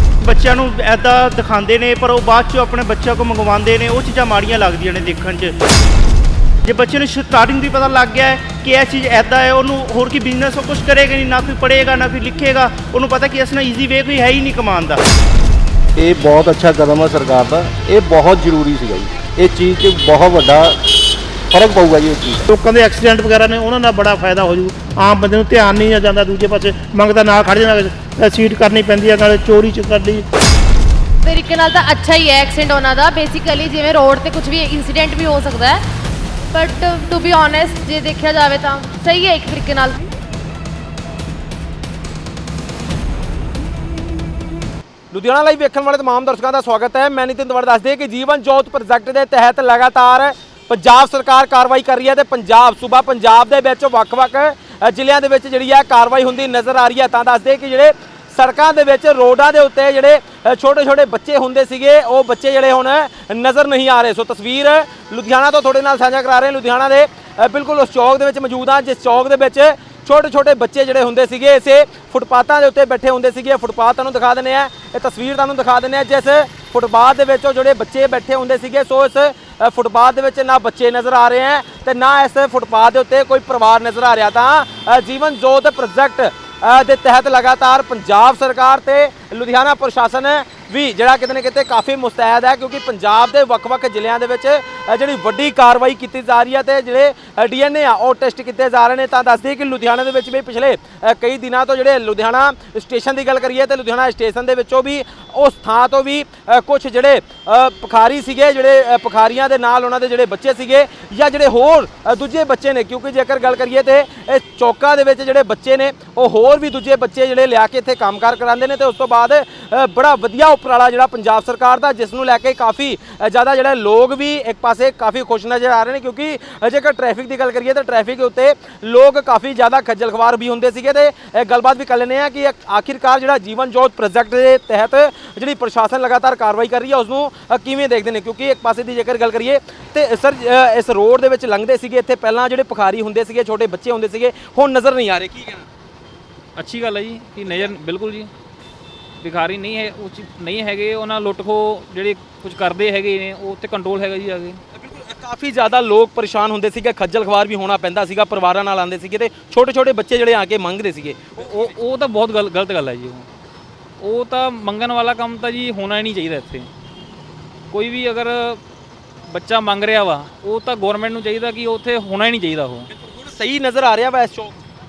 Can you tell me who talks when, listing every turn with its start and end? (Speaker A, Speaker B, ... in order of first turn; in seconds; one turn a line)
Speaker A: 0.2-5.5
Speaker A: 6.6-15.0
Speaker B: 16.0-22.4
Speaker C: 22.5-30.2
Speaker D: 31.2-35.8
Speaker D: 36.5-40.0
Speaker E: 45.1-145.7
Speaker F: 146.6-148.3
Speaker F: 149.2-154.6
Speaker E: 154.7-161.7
Speaker F: 161.4-163.3
Speaker F: 164.0-166.7
Speaker F: 167.7-168.6
Speaker F: 169.3-172.9
Speaker E: 172.9-174.6